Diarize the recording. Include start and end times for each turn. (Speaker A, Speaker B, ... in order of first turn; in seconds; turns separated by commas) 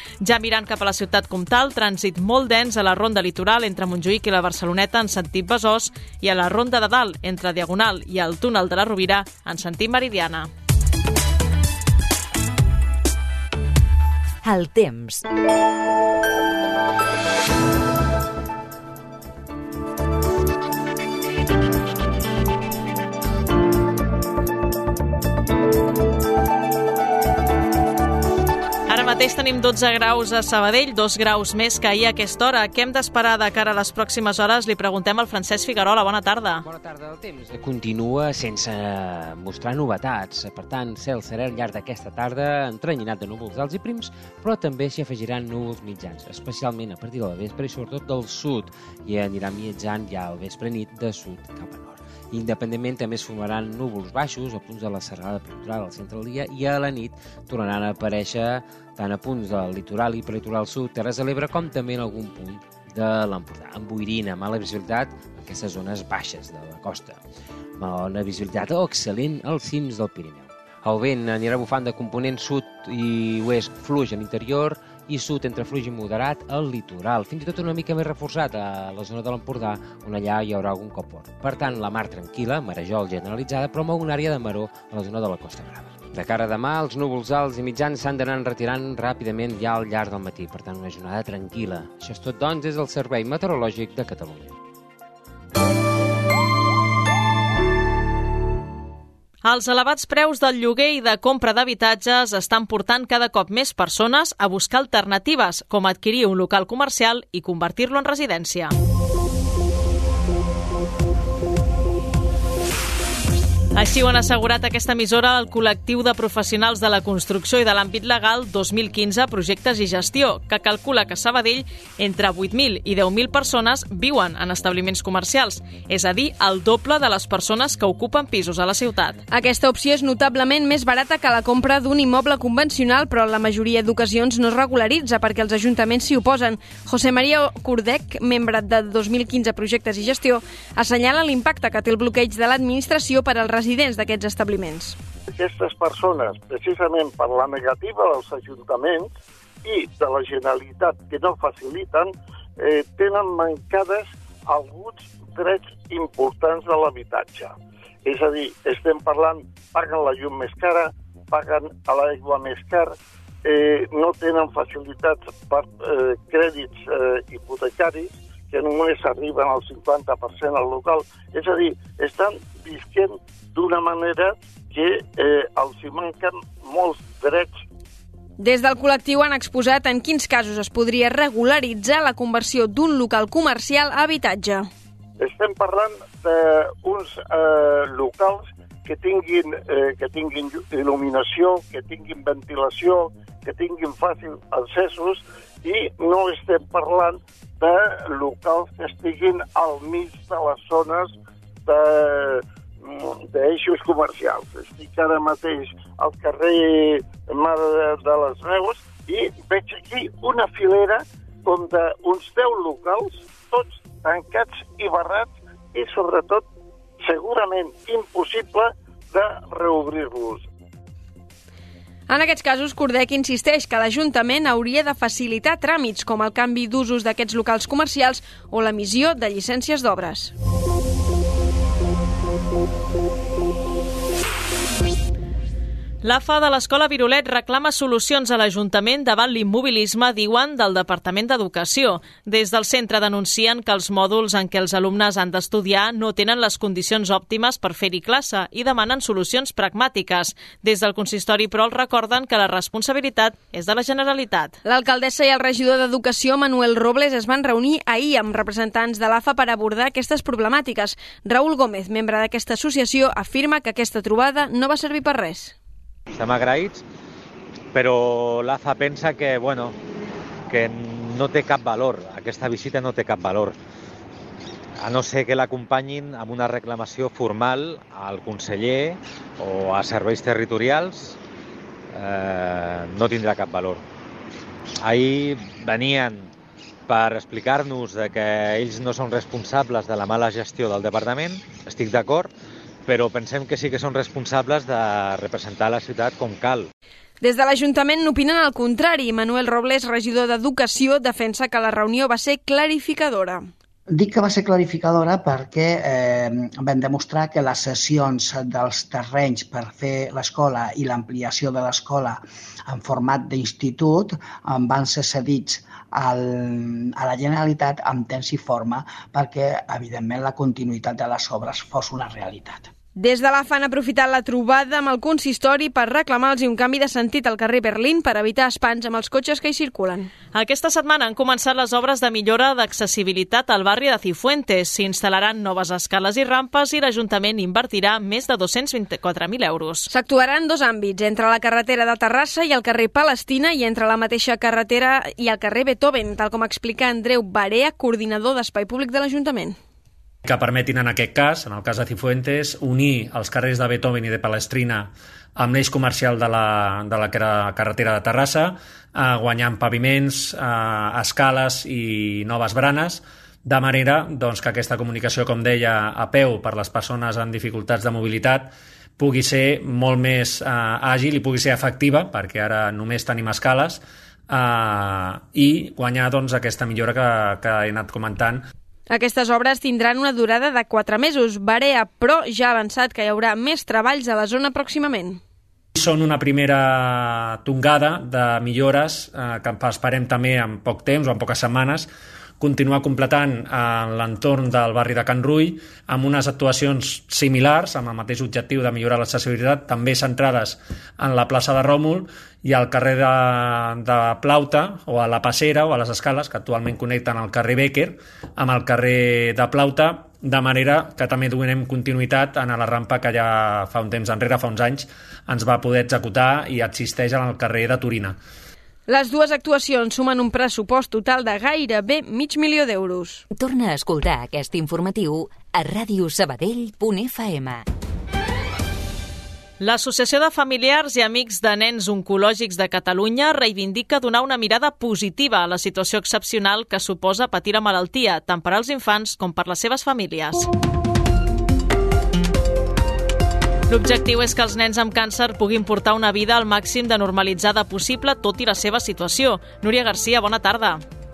Speaker A: 0.2-10.5, Speaker B: 14.4-15.2, Speaker A: 28.9-36.6, Speaker C: 36.6-67.2, Speaker C: 67.8-94.5, Speaker A: 99.4-108.7, Speaker A: 113.7-129.2, Speaker D: 129.3-144.9, Speaker E: 145.3-157.5, Speaker E: 158.0-162.9, Speaker E: 163.4-177.6, Speaker D: 178.4-184.7, Speaker E: 185.2-201.1, Speaker E: 201.7-216.4, Speaker E: 217.0-220.5, Speaker D: 222.1-230.3, Speaker A: 236.0-254.5, Speaker D: 254.6-265.5, Speaker F: 266.1-266.8, Speaker F: 267.7-269.7, Speaker F: 270.5-273.6, Speaker F: 274.8-281.2, Speaker F: 281.9-283.8, Speaker F: 284.8-286.3, Speaker F: 286.9-292.3, Speaker F: 292.9-296.7, Speaker D: 297.2-303.5, Speaker G: 303.9-322.7, Speaker D: 322.9-330.1, Speaker A: 330.3-339.9, Speaker D: 339.9-349.6, Speaker H: 350.2-378.4, Speaker D: 378.9-385.2, Speaker H: 385.8-391.9, Speaker H: 392.4-418.2, Speaker D: 418.9-423.2, Speaker B: 423.3-427.6, Speaker A: 429.6-440.5, Speaker A: 443.7-450.8